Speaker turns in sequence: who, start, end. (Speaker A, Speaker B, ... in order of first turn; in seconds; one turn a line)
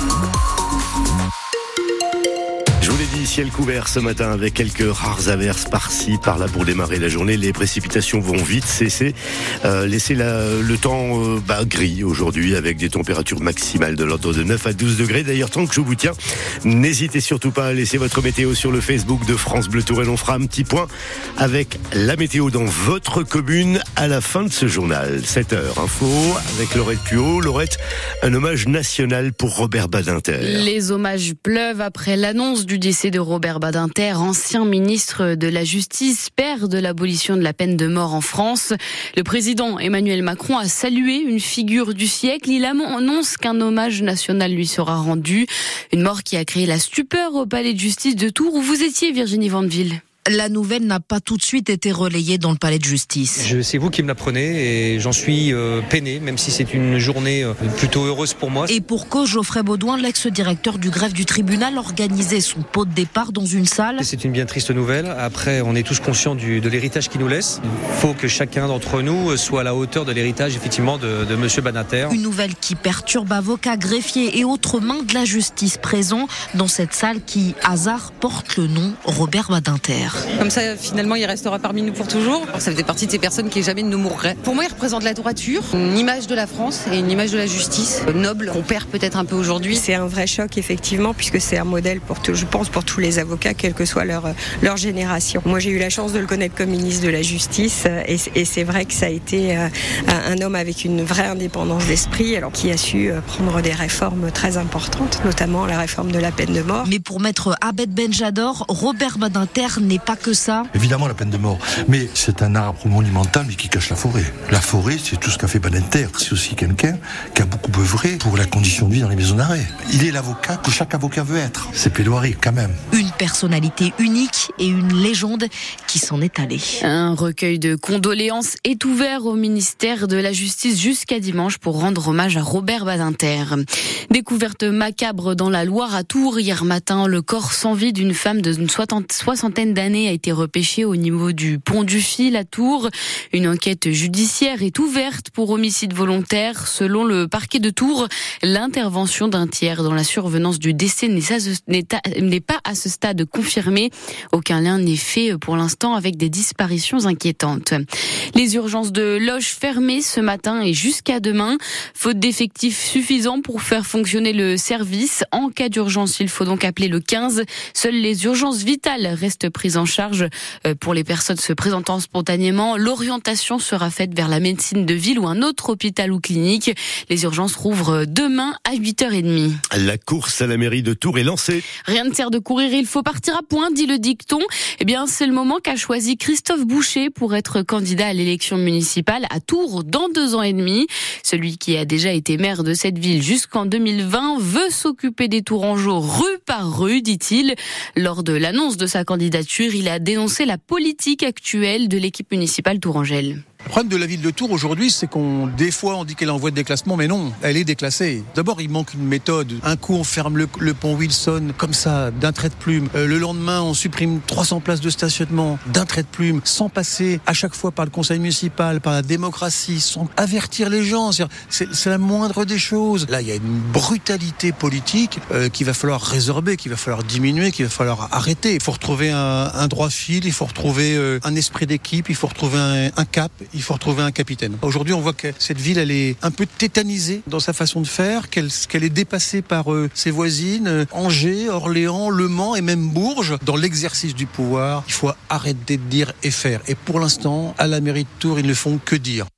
Speaker A: 2.8-30.7
Speaker B: 30.4-50.0
Speaker C: 50.3-53.5
Speaker D: 53.4-58.8
Speaker C: 58.7-64.0
Speaker D: 64.0-72.2
Speaker C: 72.1-80.2
Speaker E: 80.4-89.8
Speaker F: 89.7-106.9
Speaker C: 106.9-110.7
Speaker G: 110.7-122.8
Speaker C: 122.9-126.8
Speaker B: 126.8-179.6
Speaker A: 179.7-181.7
Speaker B: 181.9-203.4
Speaker H: 203.7-249.3